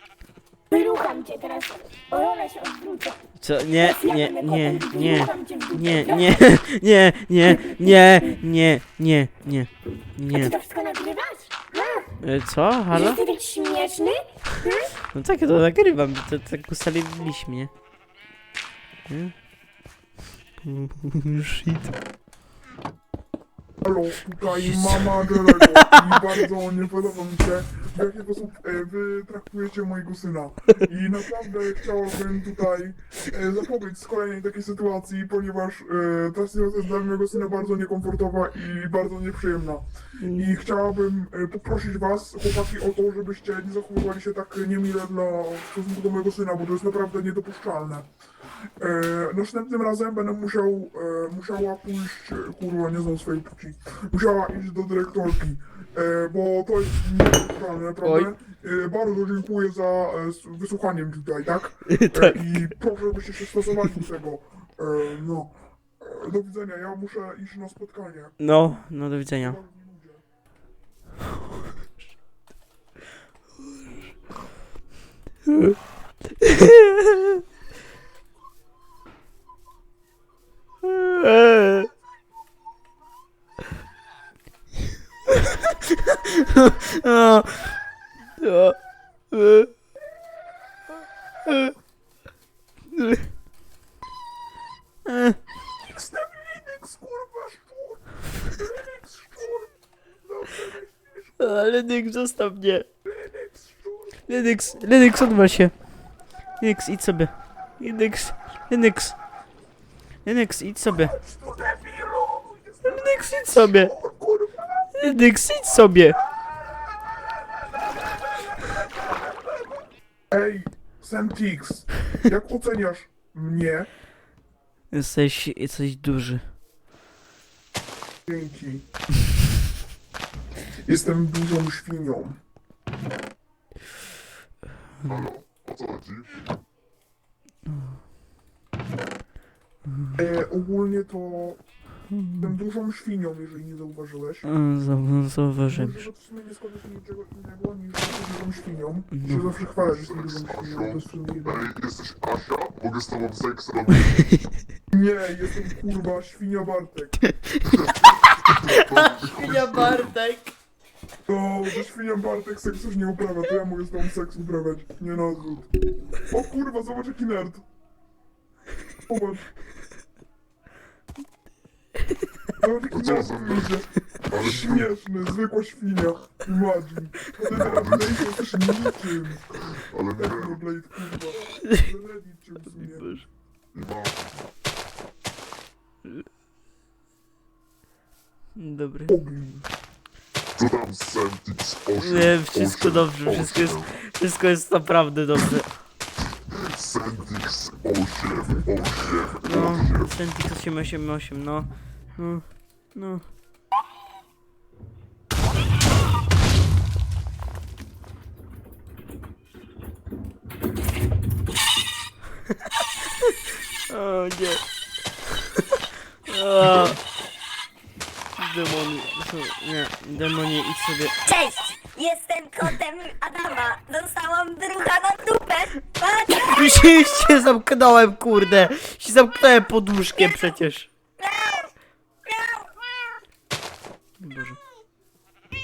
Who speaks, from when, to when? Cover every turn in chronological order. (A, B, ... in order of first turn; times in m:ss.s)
0:00.7-0:03.2 A
0:03.4-0:10.5 B
0:03.8-0:06.6 A
0:07.4-0:08.4 A
0:10.3-0:12.1 A
0:12.2-0:13.2 B
0:12.9-0:14.9 A
0:15.1-0:17.7 B
0:19.1-0:19.4 B
0:20.6-0:21.9 B
0:23.8-0:48.1 C
0:24.4-0:25.5 B
0:40.2-0:40.5 B
0:48.8-1:10.2 C
0:58.0-0:58.3 B
1:02.0-1:02.4 B
1:08.4-1:09.6 B
1:15.5-1:15.8 B
1:16.4-1:17.1 B
1:20.8-1:21.9 B
1:26.0-1:27.8 B
1:28.4-1:28.8 B
1:29.3-1:29.7 B
1:31.5-1:31.7 B
1:33.0-1:33.2 B
1:35.0-1:35.4 B
1:35.9-1:41.6 C
1:41.4-1:42.9 B
1:43.0-1:44.8 C
1:44.3-1:49.2 B
1:50.2-1:51.1 B
1:50.9-1:56.7 C
1:52.8-1:53.9 B
1:55.0-1:56.2 B
2:00.3-2:03.9 C
2:04.9-2:06.5 B
2:08.2-2:08.8 C
2:10.8-2:12.4 C
2:15.0-2:15.3 B
2:15.0-2:16.4 D
2:17.6-2:18.0 B
2:19.8-2:20.2 B
2:20.1-2:24.5 C
2:22.1-2:22.6 B
2:24.4-2:26.1 B
2:25.7-2:31.6 C
2:29.1-2:29.4 B
2:29.9-2:34.3 D
2:34.9-2:37.2 C
2:37.3-2:37.6 B
2:37.7-2:40.2 D
2:38.9-2:40.5 B
2:41.3-2:47.6 C
2:49.1-2:49.5 C
2:52.6-2:59.5 C
2:52.9-2:54.9 D
2:57.5-2:58.3 D
2:59.7-3:00.7 D
3:00.1-3:03.3 C
3:02.7-3:03.2 B
3:03.7-3:04.5 D
3:08.6-3:09.2 B
3:09.1-3:09.7 C
3:10.6-3:14.0 D
3:12.0-3:15.8 B
3:16.7-3:20.1 D
3:19.4-3:23.3 B
3:33.9-3:34.6 B
3:36.3-3:37.0 B
3:38.4-3:41.1 B
3:41.2-3:47.3 E
3:46.4-3:50.9 B
3:51.2-3:52.7 E
3:54.2-3:54.6 B